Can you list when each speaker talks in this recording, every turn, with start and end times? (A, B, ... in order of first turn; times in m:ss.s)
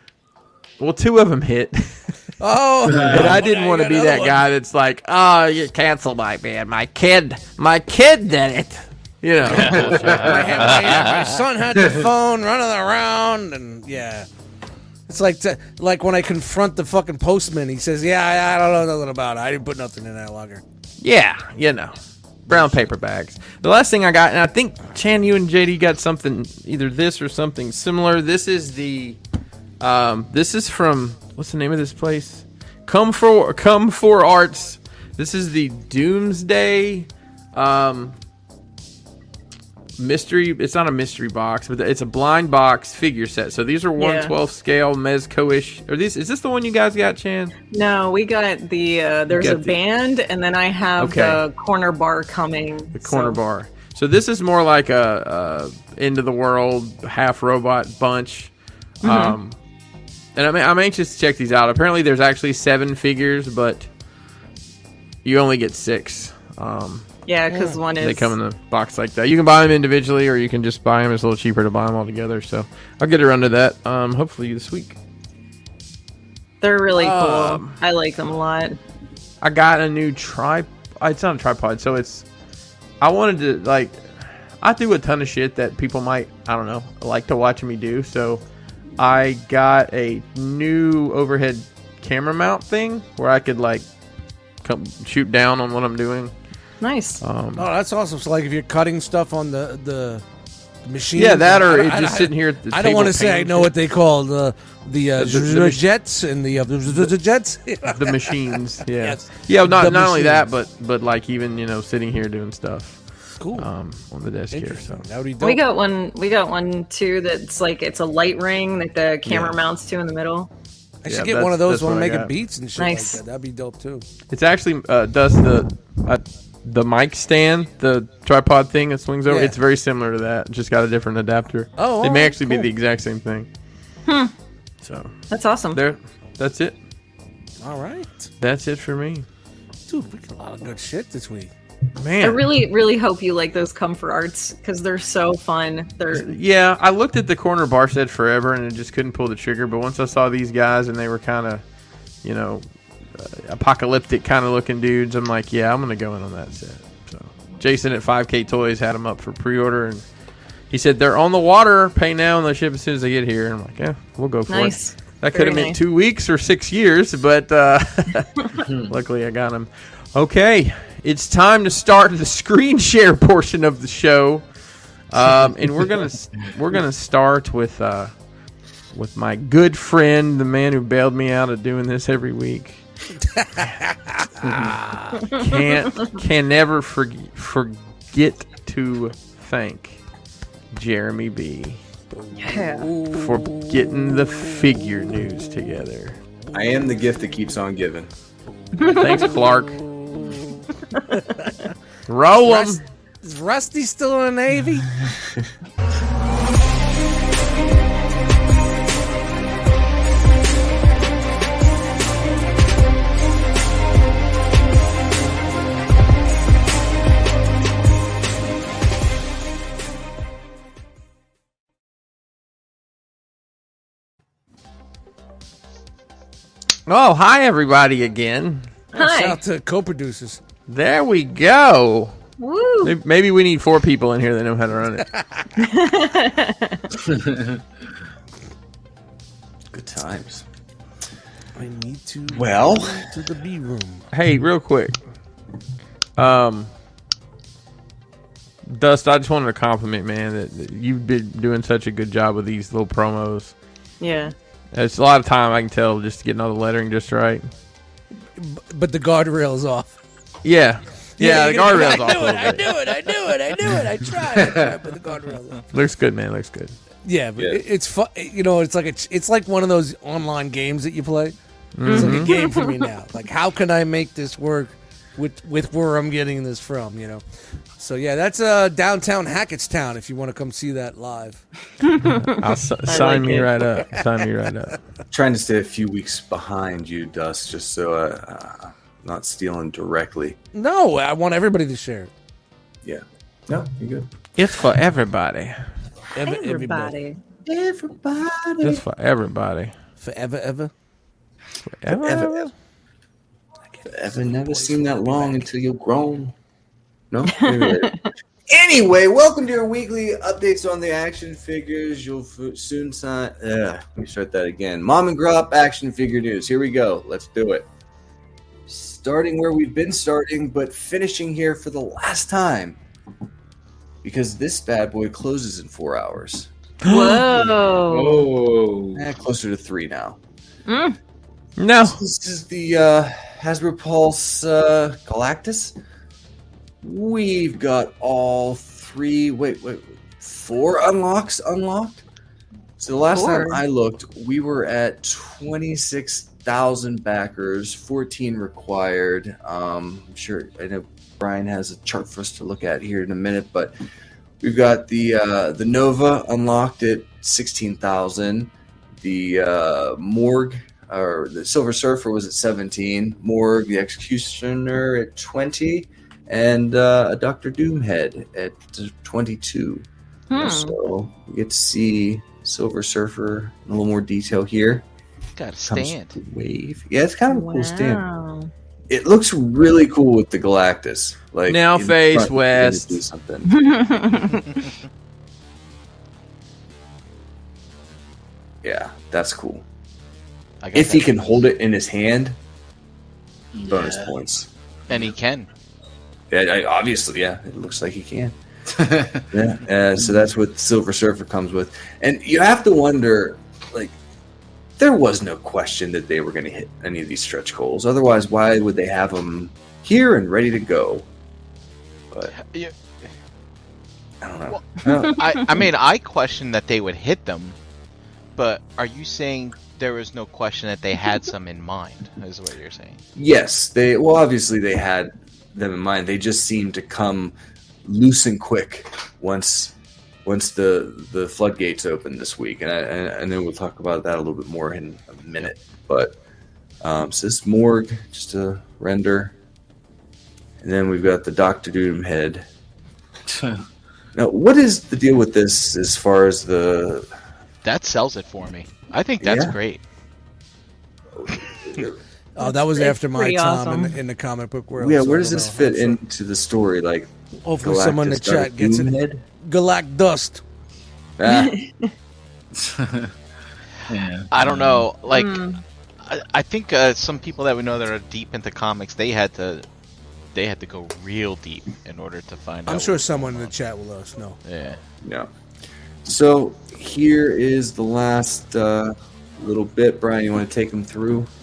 0:00.8-0:02.1 A
0:02.4-0:04.4 B
0:02.9-0:03.4 C
0:03.0-0:11.2 A
0:09.4-0:14.3 B
0:09.5-0:10.3 C
0:09.6-0:11.4 D
0:11.8-0:12.0 C
0:15.1-0:20.6 B
0:21.0-0:29.2 A
0:22.5-0:22.8 B
0:29.8-0:38.2 A
0:40.0-0:47.5 A
0:44.0-0:44.3 E
0:47.7-0:53.4 E
0:49.3-0:49.8 A
0:51.0-0:51.4 A
0:52.9-0:59.6 A
0:59.0-0:59.4 E
1:00.4-1:03.9 A
1:05.2-1:07.1 A
1:07.3-1:08.4 E
1:07.5-1:07.8 B
1:07.9-1:15.0 A
1:16.6-1:18.8 E
1:17.0-1:17.8 A
1:19.4-1:22.3 A
1:23.0-1:28.4 A
1:29.0-1:33.9 A
1:34.6-1:36.3 A
1:36.8-1:37.2 E
1:37.2-1:37.7 A
1:37.6-1:40.2 B
1:40.8-1:50.5 B
1:41.2-1:43.7 A
1:45.2-1:45.8 A
1:47.9-1:53.0 A
1:53.4-1:53.7 B
1:53.6-1:55.0 A
1:54.5-1:55.6 B
1:55.4-2:00.5 E
1:59.3-1:59.6 A
2:01.0-2:04.0 B
2:01.1-2:02.3 A
2:02.8-2:03.2 E
2:04.3-2:13.5 A
2:09.3-2:09.6 B
2:11.8-2:12.7 B
2:14.1-2:14.3 E
2:14.8-2:15.1 A
2:15.3-2:15.8 E
2:15.7-2:16.8 A
2:17.6-2:18.3 B
2:18.4-2:19.3 A
2:19.9-2:21.5 B
2:22.0-2:22.5 A
2:22.2-2:26.3 E
2:26.1-2:31.6 A
2:32.2-2:40.0 A
2:40.7-2:54.5 A
2:44.5-2:45.8 E
2:55.1-2:58.1 A
2:58.9-3:02.8 A
3:03.4-3:05.2 B
3:04.4-3:10.0 A
3:10.7-3:11.8 A
3:12.3-3:13.6 B
3:12.4-3:12.9 E
3:13.0-3:16.2 A
3:16.5-3:18.1 F
3:18.8-3:19.2 E
3:18.8-3:20.0 A
3:20.1-3:21.7 B
3:22.1-3:22.8 A
3:22.4-3:24.9 B
3:46.9-3:48.7 A
3:48.9-3:49.4 E
3:49.0-3:50.4 B
3:50.7-3:52.2 A
3:52.4-3:53.0 E
3:52.8-3:55.1 A
3:55.6-3:56.9 E
3:57.0-3:57.6 C
3:59.7-4:00.4 F
4:01.6-4:04.1 B
4:02.3-4:03.1 F
4:04.1-4:05.0 A
4:06.2-4:06.7 A
4:08.7-4:13.5 A
4:14.0-4:14.3 E
4:14.7-4:17.5 A
4:18.4-4:20.0 B
4:20.4-4:22.8 A
4:21.2-4:25.6 B
4:24.4-4:24.7 C
4:25.7-4:26.7 A
4:27.0-4:31.4 B
4:31.8-4:32.3 A
4:31.9-4:32.8 E
4:31.9-4:37.2 B
4:37.8-4:41.4 B
4:41.8-4:43.5 E
4:42.0-4:44.8 A
4:45.1-4:50.4 F
4:50.5-4:52.1 B
4:52.8-4:54.1 F
4:54.4-4:55.6 A
4:56.2-4:57.0 B
4:56.2-4:57.2 E
4:57.5-4:58.8 F
4:58.6-4:59.7 A
5:00.0-5:00.7 B
5:01.7-5:02.5 A
5:01.9-5:02.5 F
5:03.7-5:05.5 B
5:03.9-5:06.4 F
5:07.1-5:17.7 F
5:07.3-5:08.1 E
5:18.7-5:22.8 F
5:24.0-5:26.5 F
5:26.8-5:27.3 A
5:26.8-5:28.3 E
5:27.8-5:29.1 C
5:29.0-5:30.2 F
5:30.7-5:31.0 E
5:31.6-5:32.0 A
5:31.8-5:35.8 F
5:36.8-5:42.0 F
5:42.8-5:53.8 F
5:43.1-5:43.6 E
5:54.4-6:14.9 F
6:10.3-6:10.8 E
6:15.4-6:16.2 D
6:15.7-6:18.0 F
6:17.3-6:18.5 E
6:18.9-6:23.6 F
6:21.5-6:23.0 A
6:23.5-6:24.5 E
6:28.6-6:29.6 F
6:30.6-6:31.3 D
6:30.7-6:32.4 F
6:33.6-6:34.1 C
6:33.6-6:34.5 F
6:34.9-6:35.5 D
6:36.3-6:38.4 F
6:38.7-6:39.2 C
6:39.3-6:44.0 F
6:44.8-6:51.1 F
6:52.3-6:52.7 D
6:54.2-6:55.7 F
6:54.5-6:57.6 D
6:54.9-6:55.2 E
6:58.4-7:03.0 D
7:03.2-7:09.7 F
7:10.2-7:16.2 F
7:16.8-7:19.3 F
7:20.6-7:22.5 F
7:23.3-7:23.6 C
7:24.2-7:27.1 F
7:27.6-7:29.8 D
7:29.2-7:29.6 F
7:31.2-7:32.0 F
7:32.4-7:36.0 B
7:32.4-7:34.0 E
7:34.8-7:39.2 F
7:37.4-7:40.4 B
7:41.2-7:41.6 F
7:41.3-7:41.9 E
7:42.6-7:43.1 C
7:43.9-7:44.9 C
7:44.3-7:49.7 D
7:45.1-7:45.6 E
7:50.3-7:53.5 D
7:52.7-7:54.4 B
7:54.4-7:54.8 D
7:55.0-7:55.3 F
7:56.0-8:01.3 F